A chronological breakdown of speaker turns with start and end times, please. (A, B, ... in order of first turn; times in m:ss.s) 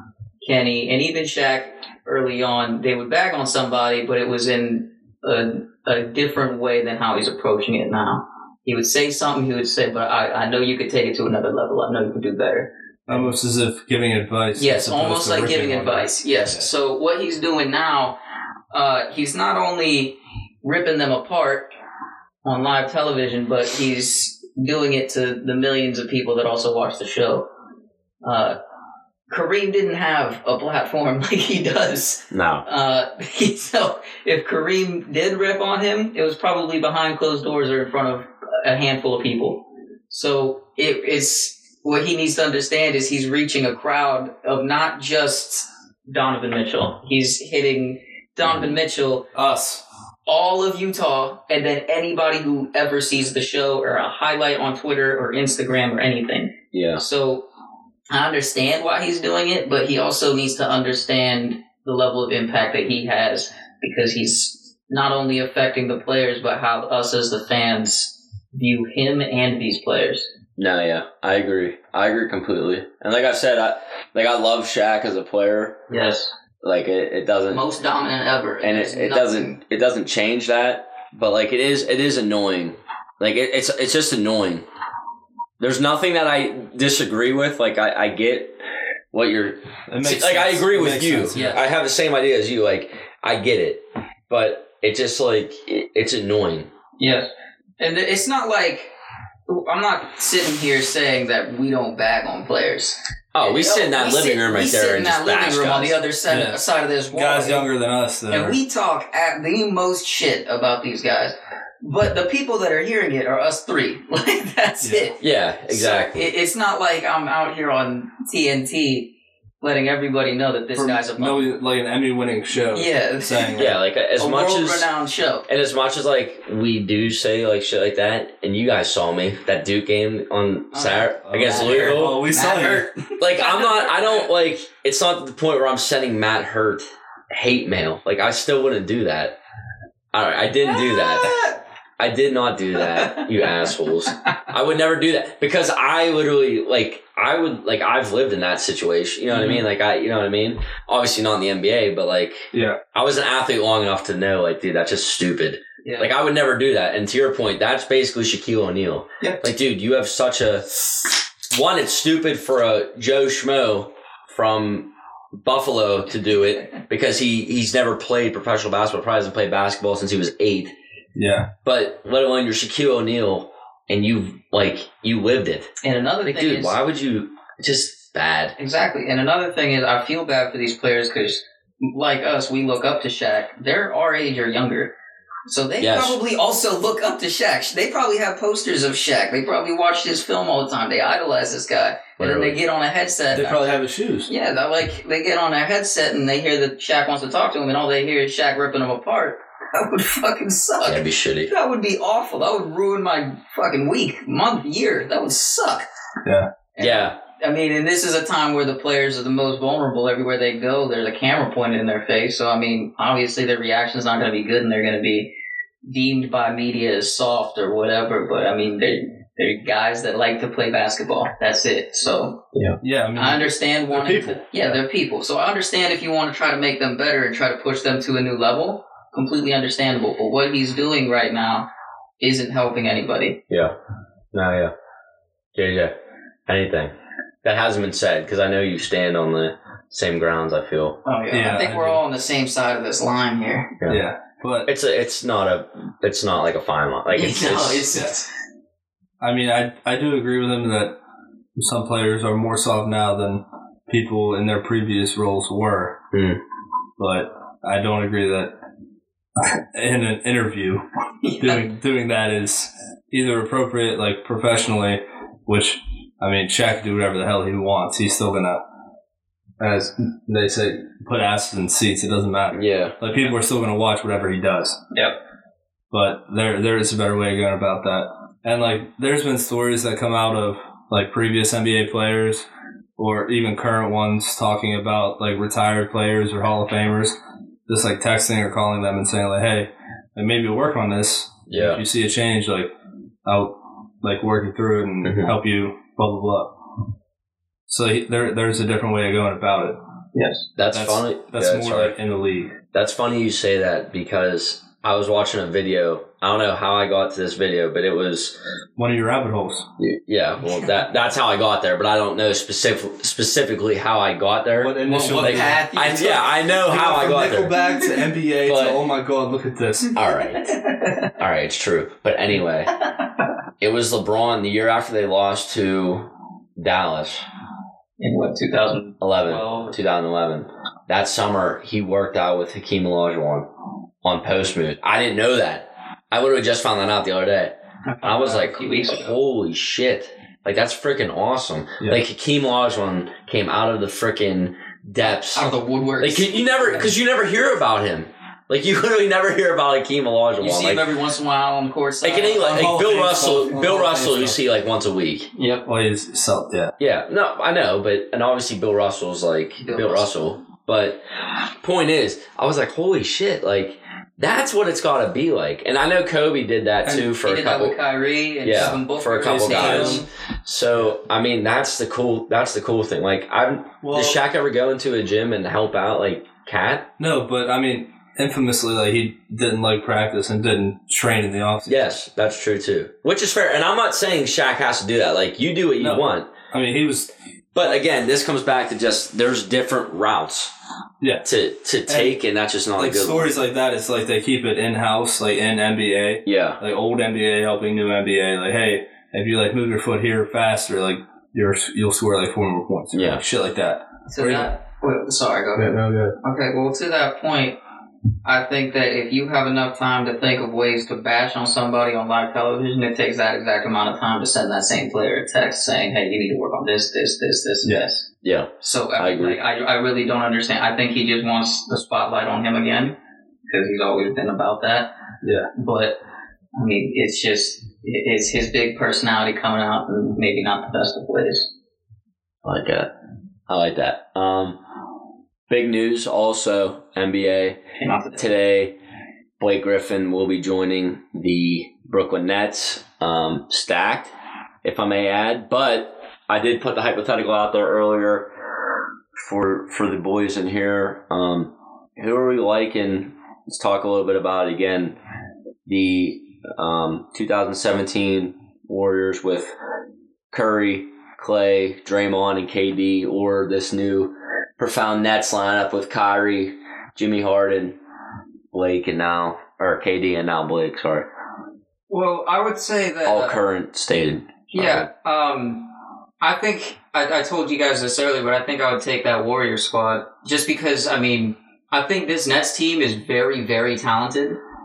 0:00.4-0:13.3 A
0:13.1-0:16.7 B
0:14.6-0:18.2 A
0:18.7-0:21.7 A
0:22.4-0:27.5 A
0:28.2-0:28.6 A
0:29.3-0:49.2 A
0:32.3-0:32.6 C
0:49.4-0:49.8 B
0:50.3-0:57.4 A
0:56.7-0:57.0 C
0:58.1-1:10.3 A
1:10.6-1:15.8 C
1:15.9-1:16.3 A
1:16.6-1:17.6 C
1:17.5-1:19.6 A
1:18.6-1:24.6 C
1:25.6-1:28.6 C
1:29.1-1:36.7 C
1:29.9-1:31.5 B
1:31.3-1:31.6 A
1:37.0-1:38.9 A
1:39.5-1:47.7 A
1:43.3-1:46.0 C
1:46.3-1:48.6 B
1:48.3-2:01.4 A
1:55.2-1:56.3 C
2:00.7-2:03.8 B
2:02.7-2:05.4 A
2:03.6-2:04.9 C
2:05.5-2:12.2 C
2:10.7-2:13.9 A
2:11.3-2:12.9 B
2:13.2-2:19.4 C
2:20.1-2:21.4 C
2:20.7-2:21.6 A
2:22.0-2:40.7 C
2:22.9-2:23.3 A
2:29.3-2:29.6 A
2:32.5-2:32.8 B
2:35.8-2:36.1 A
2:39.2-2:39.5 A
2:41.5-2:50.7 C
2:51.2-2:51.5 B
2:51.6-2:55.7 C
2:55.8-2:56.8 A
2:56.2-2:58.6 C
2:58.6-3:04.9 A
3:05.5-3:13.7 A
3:05.8-3:06.2 C
3:12.2-3:12.6 C
3:13.3-3:14.3 B
3:14.3-3:25.9 A
3:20.8-3:21.5 C
3:26.7-3:35.3 A
3:26.8-3:27.2 C
3:35.8-3:42.5 A
3:42.8-3:44.8 B
3:43.2-3:51.6 A
3:52.2-3:53.4 A
3:53.5-3:53.7 C
3:54.3-3:54.7 C
3:55.6-3:55.9 C
3:56.5-4:01.0 C
4:01.0-4:03.8 A
4:01.3-4:02.0 B
4:03.9-4:04.7 B
4:04.6-4:07.9 C
4:07.1-4:08.3 A
4:09.2-4:11.0 B
4:11.6-4:16.0 B
4:16.1-4:16.4 C
4:17.0-4:18.5 B
4:19.4-4:20.8 B
4:21.2-4:21.6 A
4:21.4-4:28.6 B
4:29.6-4:34.8 B
4:32.5-4:33.0 C
4:35.9-4:42.4 B
4:43.0-4:47.2 B
4:47.7-4:52.7 B
4:51.5-4:51.8 C
4:53.2-4:56.5 B
4:55.0-4:55.3 C
4:57.7-4:59.8 B
5:00.1-5:00.4 A
5:00.6-5:02.0 C
5:00.7-5:02.6 B
5:02.7-5:08.4 C
5:08.8-5:09.7 B
5:09.8-5:17.6 C
5:14.6-5:15.6 B
5:14.8-5:16.3 A
5:16.6-5:19.9 B
5:18.4-5:18.8 C
5:19.9-5:20.5 C
5:20.4-5:20.9 A
5:21.2-5:22.7 C
5:23.6-5:27.2 C
5:28.0-5:29.8 A
5:29.0-5:33.5 C
5:34.0-5:45.5 C
5:37.9-5:39.1 A
5:45.3-5:46.9 A
5:46.0-5:50.9 C
5:50.4-5:52.8 A
5:52.0-5:55.3 C
5:52.4-5:54.4 B
5:55.4-5:55.6 A
5:55.6-5:56.7 B
5:56.8-6:01.0 C
5:59.6-6:00.1 A
6:01.6-6:07.8 C
6:07.2-6:10.1 A
6:08.4-6:16.9 C
6:09.2-6:10.0 B
6:13.8-6:14.2 B
6:17.0-6:21.8 B
6:21.6-6:26.3 C
6:25.8-6:27.8 B
6:27.6-6:30.5 C
6:31.0-6:31.3 B
6:31.2-6:33.4 C
6:31.9-6:32.2 B
6:32.8-6:44.5 B
6:36.2-6:36.6 C
6:42.9-6:43.2 C
6:44.1-6:47.6 A
6:45.6-6:46.2 B
6:48.2-6:58.1 A
6:58.2-6:59.4 C
6:58.6-7:03.0 A
7:03.5-7:04.9 A
7:05.2-7:05.5 B
7:05.5-7:06.0 A
7:06.6-7:11.5 A
7:12.4-7:12.9 C
7:13.5-7:14.6 C
7:15.5-7:17.6 C
7:17.8-7:18.4 A
7:18.2-7:18.8 C
7:19.4-7:24.1 C
7:24.6-7:28.3 C
7:29.2-7:35.0 C
7:35.6-7:39.5 C
7:40.3-7:47.8 C
7:48.5-7:51.1 C
7:51.9-7:53.4 A
7:53.0-7:54.9 C
7:54.5-8:04.4 A